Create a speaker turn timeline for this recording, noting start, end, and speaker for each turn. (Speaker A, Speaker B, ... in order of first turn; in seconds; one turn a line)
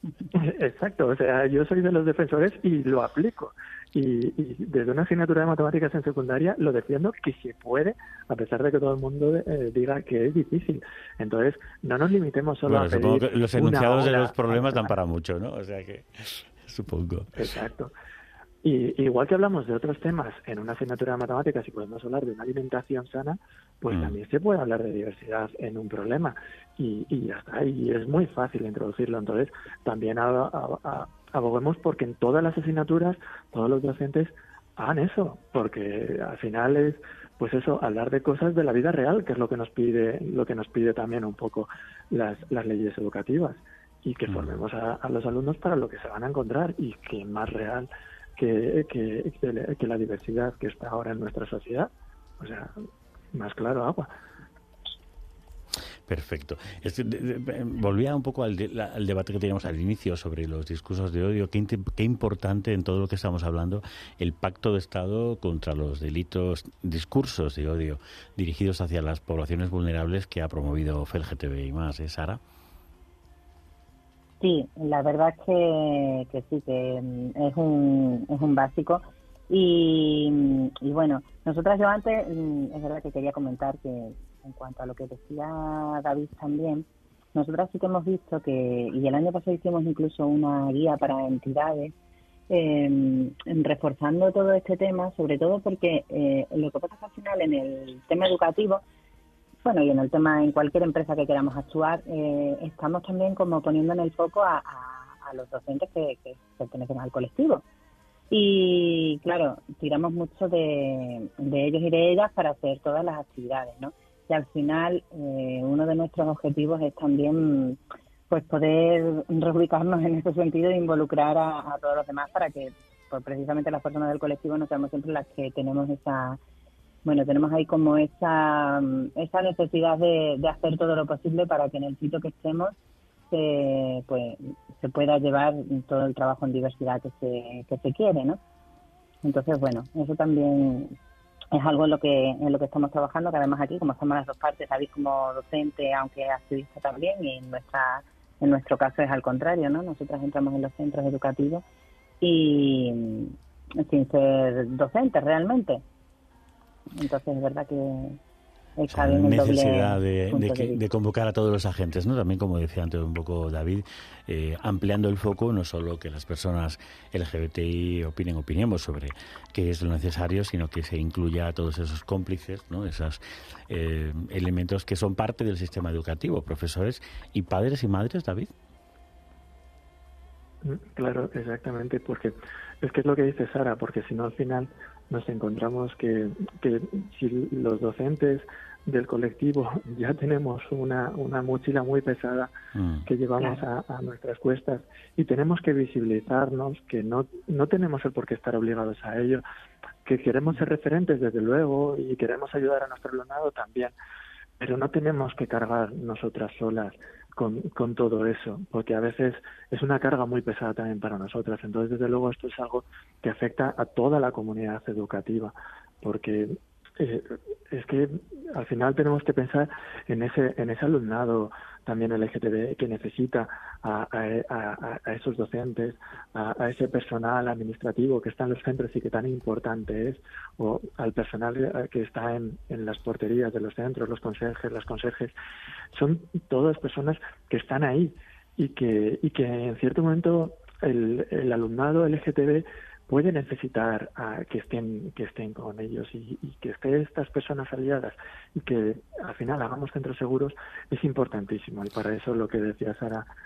Speaker A: 0.3-14.9
Speaker B: 12.7-17.3
Speaker A: 17.4-17.9
Speaker A: 18.6-52.7
Speaker B: 23.9-24.2
Speaker B: 44.3-44.5
Speaker A: 53.3-54.1
Speaker B: 56.0-72.4
Speaker C: 74.4-91.9
Speaker C: 92.5-98.8
Speaker C: 99.6-107.6
Speaker C: 108.3-117.8
Speaker C: 118.3-126.4
Speaker C: 127.0-132.7
Speaker C: 133.3-138.4
Speaker C: 139.2-140.9
Speaker C: 141.5-151.6
Speaker C: 152.2-155.8
Speaker C: 156.9-158.2
Speaker C: 158.8-160.8
Speaker B: 158.9-178.5
Speaker A: 180.6-192.5
Speaker B: 192.7-193.1
Speaker A: 193.1-199.4
Speaker A: 200.0-203.9
Speaker A: 204.6-235.3
Speaker A: 235.9-253.2